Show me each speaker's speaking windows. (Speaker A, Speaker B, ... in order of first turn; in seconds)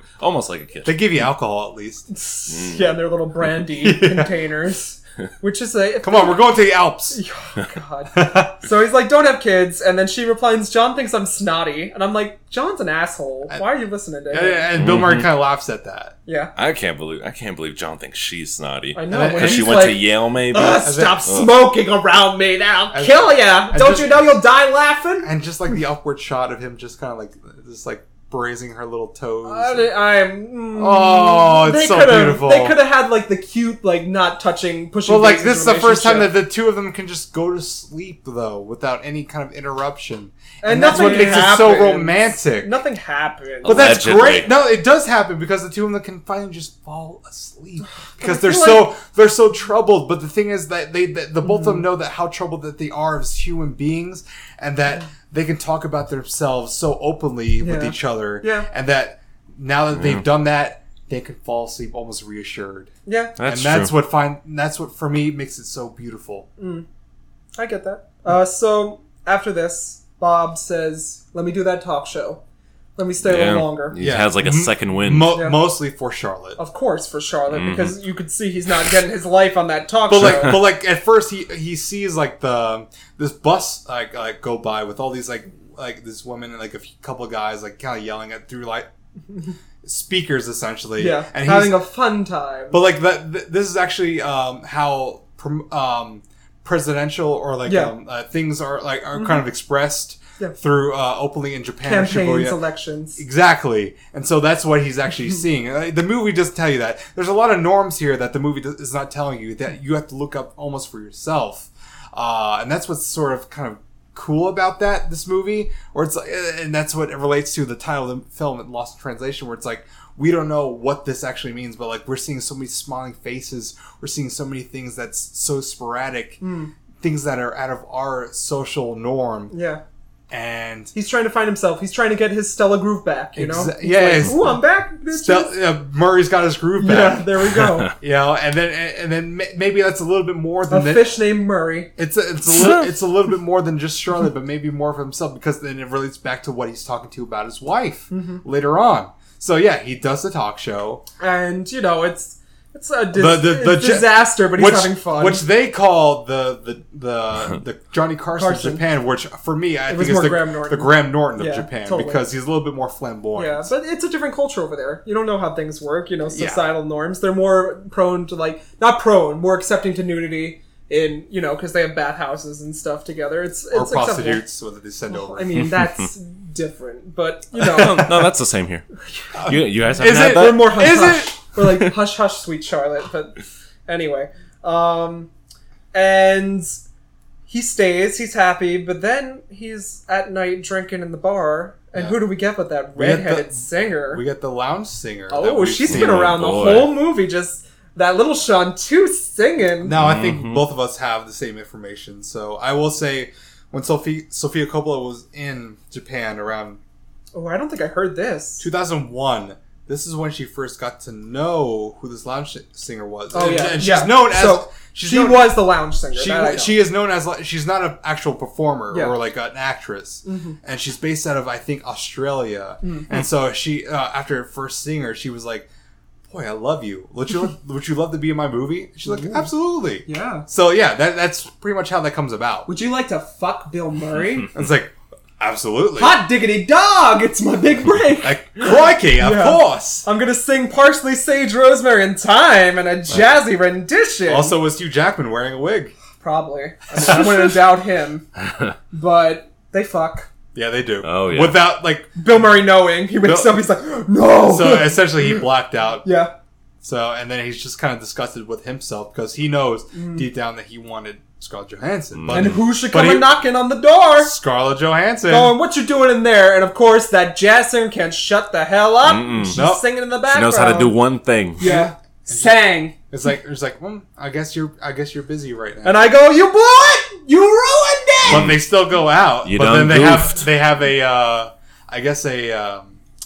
Speaker A: 0.2-1.0, 2.5-2.9, 14.8-15.3, 16.6-21.6, 43.6-44.5, 63.4-63.9, 73.2-75.4, 77.5-78.0, 137.6-137.9, 142.5-142.9, 177.6-178.9, 179.4-181.1, 195.9-196.9, 199.9-200.6, 248.4-248.7, 251.0-251.6, 262.1-262.6, 269.0-269.6, 270.3-271.8, 278.3-278.6, 279.4-280.5
Speaker B: 0.8-2.1, 3.8-4.3, 6.0-7.2, 8.1-8.5, 14.3-16.1, 19.1-19.9, 20.8-21.2, 22.9-24.4, 25.2-29.9, 30.8-32.8, 35.1-42.8, 43.6-66.5, 74.0-76.6, 80.1-88.9, 89.8-91.8, 92.7-102.6, 103.2-126.4, 127.0-129.5, 130.3-130.9, 133.3-134.6, 135.1-137.3, 138.0-141.2, 142.0-151.0, 153.1-163.7, 166.3-166.7, 173.7-175.5, 177.6-178.3, 179.3-181.4, 191.9-192.2, 192.9-196.4, 199.8-206.8, 208.6-225.7, 226.3-232.7, 234.5-236.2, 238.2-240.1, 244.3-245.9, 246.9-247.6, 250.6-252.1, 253.2-253.6, 254.4-256.1, 256.8-263.4, 264.2-265.6, 269.5-269.9, 271.6-276.1, 278.2-283.0
Speaker C: 2.1-6.4, 7.1-14.7, 16.3-16.5, 18.9-25.3, 29.4-36.4, 40.6-44.0, 48.2-48.9, 51.4-51.8, 57.6-58.7, 63.0-63.3, 66.6-66.8, 67.5-72.4, 73.0-74.0, 76.6-80.6, 91.0-92.8, 97.7-97.9, 101.8-103.2, 126.4-126.7, 129.5-129.8, 130.9-135.5, 136.8-137.9, 140.7-141.9, 148.1-148.4, 151.2-155.4, 158.3-158.8, 159.9-162.2, 163.3-174.4, 175.1-178.1, 180.0-185.3, 185.9-186.8, 187.5-194.2, 195.3-199.9, 207.3-208.6, 213.3-216.8, 220.2-220.6, 222.8-223.1, 229.1-229.5, 230.1-230.5, 232.7-234.5, 236.0-244.6, 246.2-248.2, 248.9-250.3, 252.2-255.4, 256.0-256.3, 259.9-260.3, 262.3-264.3, 265.3-270.9, 271.6-272.9, 275.8-278.5